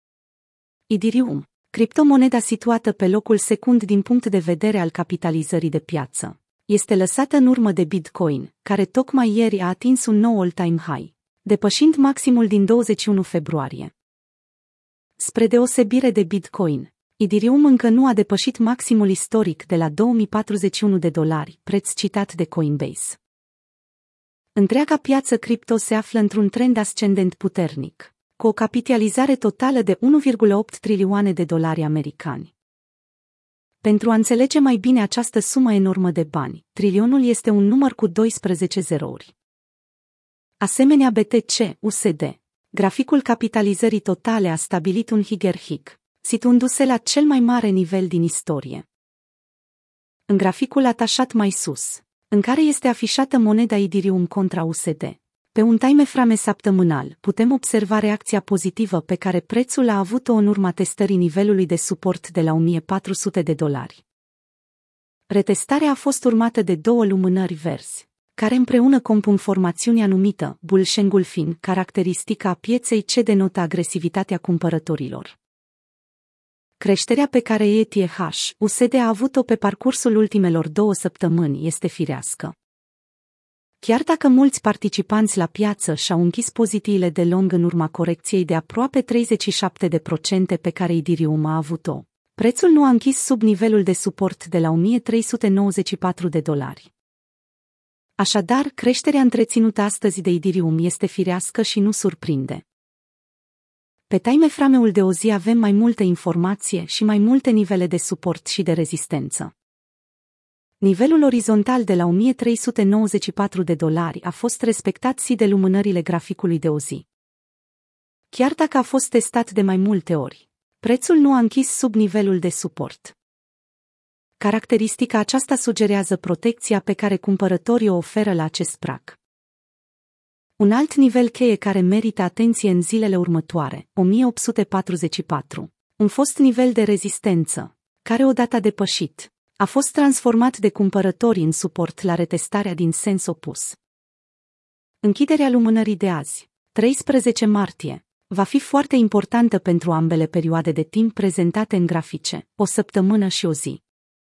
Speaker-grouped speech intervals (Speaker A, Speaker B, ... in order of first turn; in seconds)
Speaker A: 0.9-13.9, 15.2-23.2, 24.5-32.5, 33.8-39.3, 40.6-48.9, 50.3-64.0, 65.3-75.3, 76.8-82.5, 83.8-96.9, 98.2-102.6, 104.1-109.5, 110.8-117.0, 118.3-123.1, 124.4-129.2, 130.6-143.8, 145.0-153.8